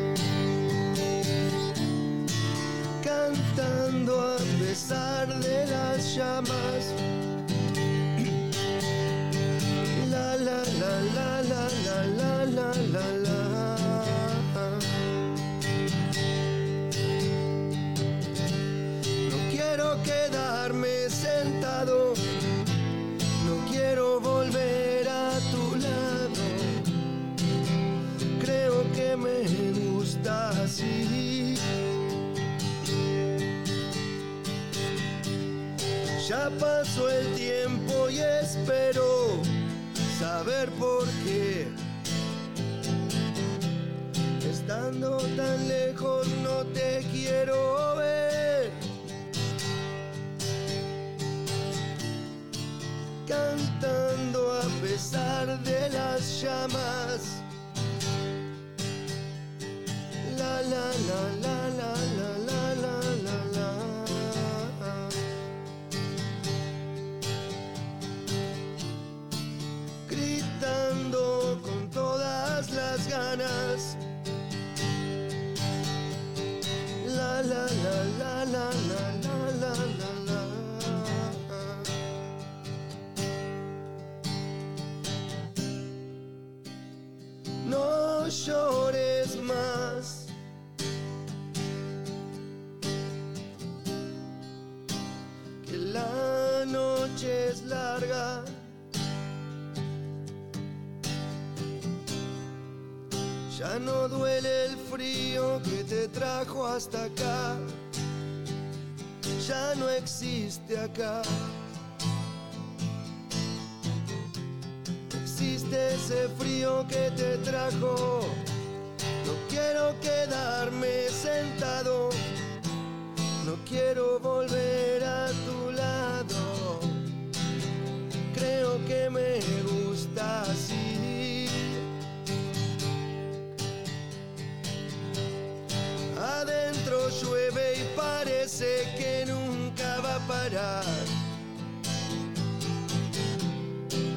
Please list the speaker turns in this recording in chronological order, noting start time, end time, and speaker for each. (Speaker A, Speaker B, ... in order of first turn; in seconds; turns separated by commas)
Speaker A: 3.0-7.0, Speaker A: 9.9-14.9, Speaker A: 19.2-22.2, Speaker A: 23.4-26.9, Speaker A: 28.4-31.7, Speaker A: 36.2-39.5, Speaker A: 40.1-41.8, Speaker A: 44.4-48.9, Speaker A: 53.2-57.4, Speaker A: 60.2-65.1, Speaker A: 70.1-74.0, Speaker A: 77.0-81.9, Speaker A: 87.6-90.3, Speaker A: 95.6-98.6, Speaker A: 103.5-107.7, Speaker A: 109.4-111.5, Speaker A: 115.1-118.4, Speaker A: 119.2-122.2, Speaker A: 123.4-127.0, Speaker A: 128.3-131.8, Speaker A: 136.1-141.2